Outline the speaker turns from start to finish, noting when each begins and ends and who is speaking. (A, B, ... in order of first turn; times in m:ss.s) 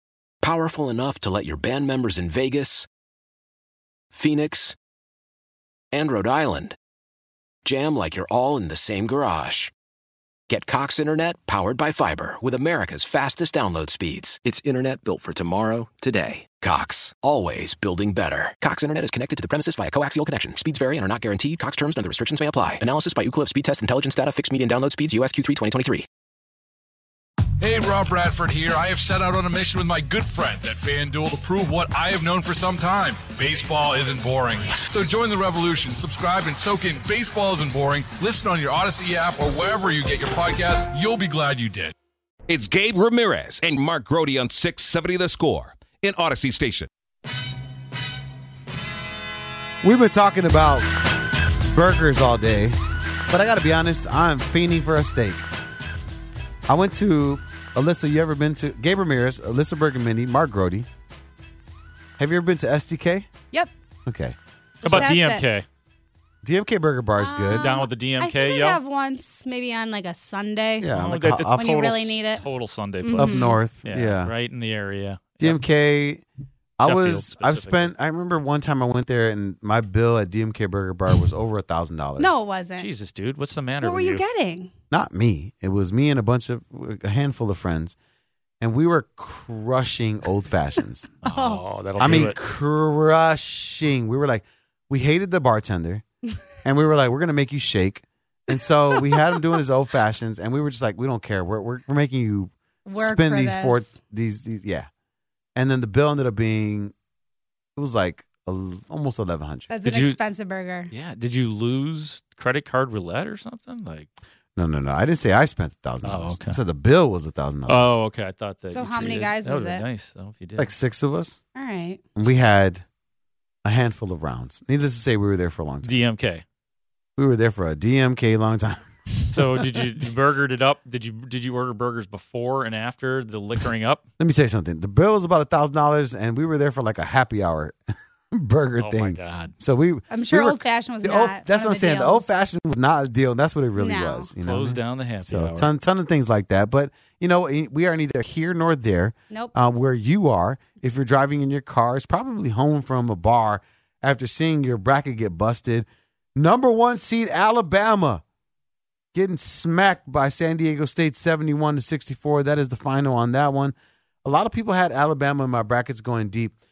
0:00.4-0:02.9 A
0:04.1-0:04.8 A
0:05.9-0:06.8 A
0:07.6-0:09.7 A
0:10.5-0:26.1 A
0:27.6-0:41.9 B
0:42.5-0:46.9 C
0:49.8-0:50.9 D
0:51.6-0:52.8 D
0:53.3-0:55.4 D
0:56.7-1:00.9 D
1:02.2-1:03.3 D
1:04.0-1:05.1 D
1:04.8-1:05.6 E
1:04.8-1:05.4 F
1:06.4-1:07.8 D
1:07.2-1:10.9 F
1:07.5-1:08.8 E
1:10.8-1:11.9 D
1:10.9-1:15.6 E
1:11.6-1:12.4 F
1:13.0-1:13.6 F
1:13.1-1:14.3 D
1:15.4-1:16.2 D
1:16.8-1:22.4 D
1:16.8-1:17.9 E
1:22.2-1:22.9 F
1:22.8-1:24.2 E
1:23.8-1:24.7 F
1:24.9-1:28.0 D
1:28.6-1:31.1 D
1:31.2-1:32.4 E
1:31.2-1:32.2 F
1:32.0-1:36.0 D
1:36.6-1:44.9 D
1:38.9-1:39.4 F
1:42.8-1:43.9 F
1:45.6-1:46.9 D
1:47.8-1:49.7 D
1:49.7-1:50.9 F
1:49.8-1:50.2 E
1:50.9-1:54.1 E
1:54.6-1:58.0 D
1:56.0-1:56.6 E
1:57.7-2:00.7 E
1:58.7-1:59.8 F
2:00.6-2:01.4 D
2:01.5-2:02.0 F
2:02.2-2:02.8 D
2:03.6-2:06.0 D
2:05.8-2:06.4 E
2:07.2-2:08.8 D
2:09.3-2:14.0 E
2:14.2-2:38.2 D
2:18.8-2:19.5 E
2:20.1-2:22.3 F
2:23.8-2:24.3 F
2:24.4-2:25.7 E
2:39.1-2:46.6 D